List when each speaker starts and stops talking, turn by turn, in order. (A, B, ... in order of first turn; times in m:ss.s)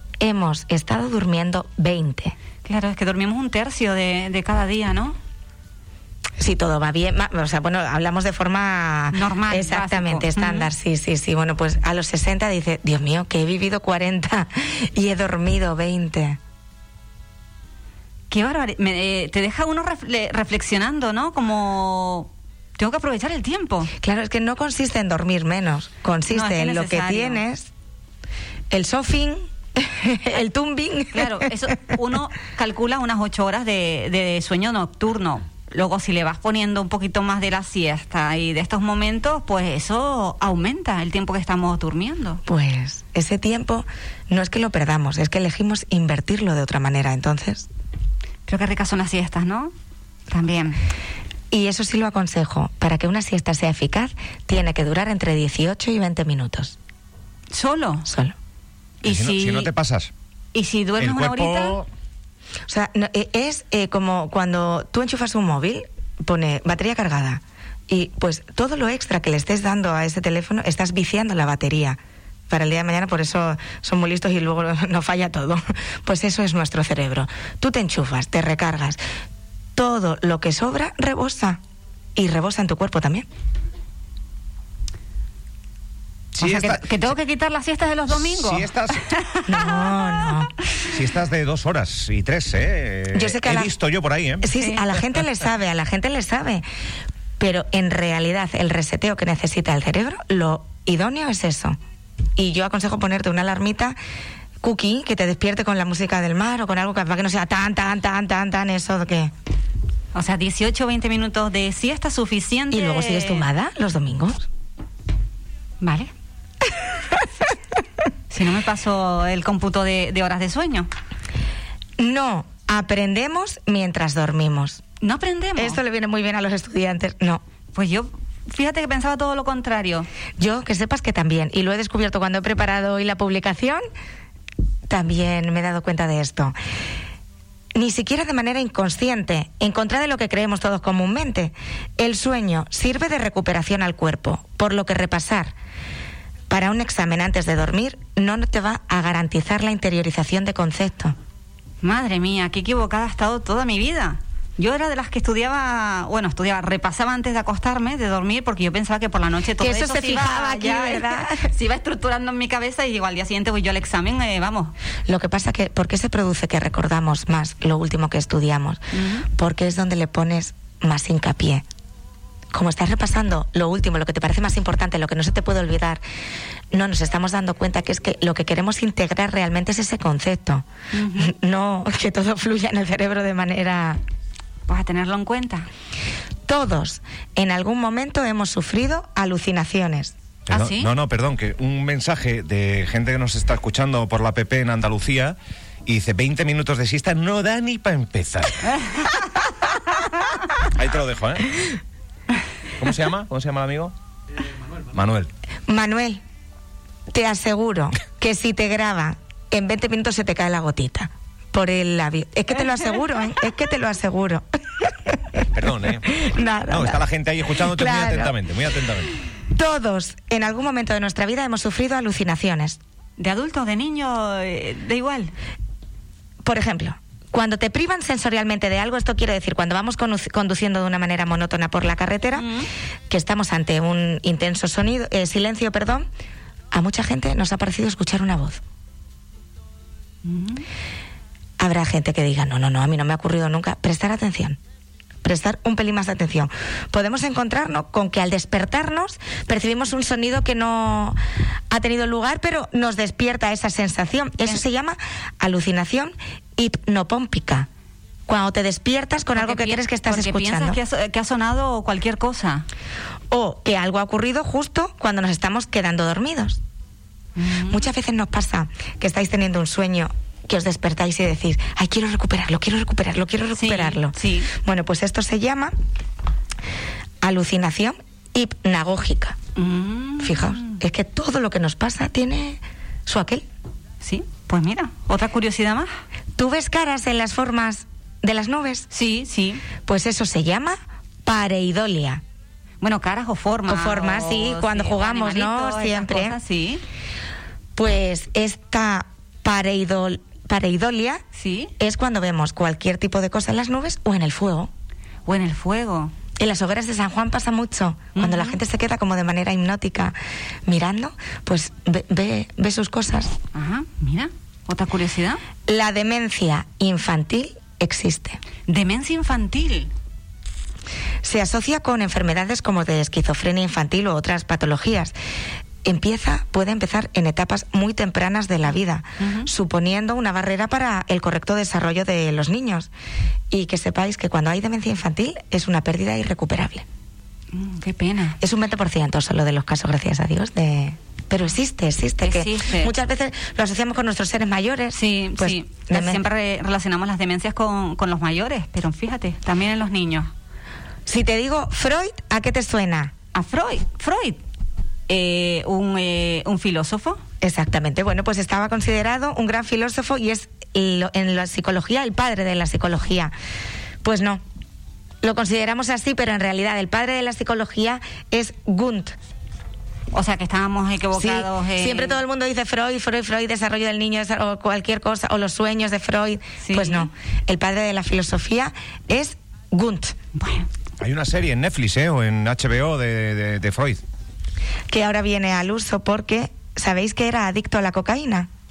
0:00.2-0:02.3 A
0:02.6-0:05.2 B
0:06.4-0:16.4 A
0:09.1-0:10.7 B
0:18.3-0:23.9 B
0:24.0-0:27.7 A
0:26.3-0:27.4 B
0:28.7-0:31.5 A
0:31.1-0:42.4 B
0:42.4-0:47.7 A
0:48.5-0:49.7 B
0:50.3-0:50.8 B
0:51.5-0:56.8 A
0:57.5-0:58.0 B
0:58.0-0:58.3 A
0:59.0-0:59.7 B
0:59.0-1:00.1 C
1:00.5-1:01.8 B
1:01.0-1:01.9 C
1:02.7-1:12.0 A
1:12.5-1:19.0 A
1:19.8-1:21.6 A
1:22.2-1:23.2 A
1:26.4-1:27.1 C
1:26.4-1:26.8 A
1:26.5-1:30.2 B
1:28.1-1:29.0 C
1:29.5-1:30.5 A
1:30.8-1:34.5 C
1:33.1-1:33.7 A
1:34.4-1:36.6 A
1:34.5-1:34.8 B
1:37.4-1:41.8 A
1:42.4-1:44.0 A
1:44.6-1:49.3 A
1:50.1-1:53.5 B
1:52.7-1:54.4 A
1:55.8-1:56.1 B
1:58.3-2:00.9 B
2:02.0-2:04.8 A
2:05.0-2:05.8 B
2:05.6-2:07.4 A
2:07.7-2:10.1 B
2:10.4-2:13.8 A
2:14.9-2:16.5 A
2:17.7-2:25.5 A
2:26.5-2:31.1 A
2:31.8-2:44.7 B
2:39.6-2:41.5 A
2:45.1-2:48.8 A
2:48.9-2:49.3 B
2:49.4-2:51.6 A
2:52.5-2:56.0 A
2:56.7-3:04.0 A
3:00.9-3:01.3 B
3:04.7-3:05.7 B
3:06.5-3:10.1 A
3:10.5-3:18.8 C
3:10.5-3:10.9 B
3:20.7-3:21.7 C
3:22.8-3:23.9 C
3:24.9-3:25.3 C
3:25.7-3:26.2 A
3:27.1-3:34.4 A
3:35.5-3:39.1 C
3:36.0-3:37.0 A
3:37.5-3:38.3 A
3:39.5-3:42.8 A
3:43.2-3:45.3 B
3:46.4-3:52.5 A
3:52.4-3:52.7 B
3:53.1-3:56.1 A
3:56.7-3:58.6 A
4:00.2-4:00.6 B
4:01.6-4:04.6 A
4:05.2-4:11.2 A
4:11.7-4:17.7 A
4:18.3-4:20.8 A
4:19.4-4:22.6 B
4:23.3-4:26.6 A
4:27.4-4:27.8 B
4:27.7-4:35.7 A
4:33.5-4:34.5 B
4:37.2-4:39.4 A
4:39.6-4:40.7 B
4:40.2-4:43.4 A
4:44.0-4:45.9 B
4:46.4-4:48.9 A
4:48.9-4:49.6 B
4:49.8-4:52.2 A
4:52.8-4:56.8 B
4:53.7-4:56.4 A
4:57.8-5:01.2 A
5:01.3-5:01.7 B
5:01.8-5:04.7 A
5:05.2-5:06.1 B
5:06.4-5:10.2 A
5:08.1-5:08.6 B
5:10.7-5:13.3 A
5:13.5-5:15.4 B
5:15.7-5:18.4 A
5:18.7-5:19.9 B
5:21.2-5:25.1 A
5:25.8-5:32.9 A
5:29.2-5:29.5 B
5:33.5-5:36.8 A
5:37.5-5:38.4 B
5:38.4-5:46.2 A
5:42.2-5:42.9 B
5:44.9-5:50.3 B
5:51.0-5:53.1 A
5:53.3-5:54.4 B
5:55.1-5:57.2 B
5:57.4-6:03.3 A
6:04.0-6:04.4 A
6:05.2-6:09.1 A
6:10.1-6:12.2 B
6:11.1-6:20.1 A
6:16.6-6:17.1 B
6:20.4-6:20.7 B
6:21.0-6:24.0 C
6:24.9-6:28.5 A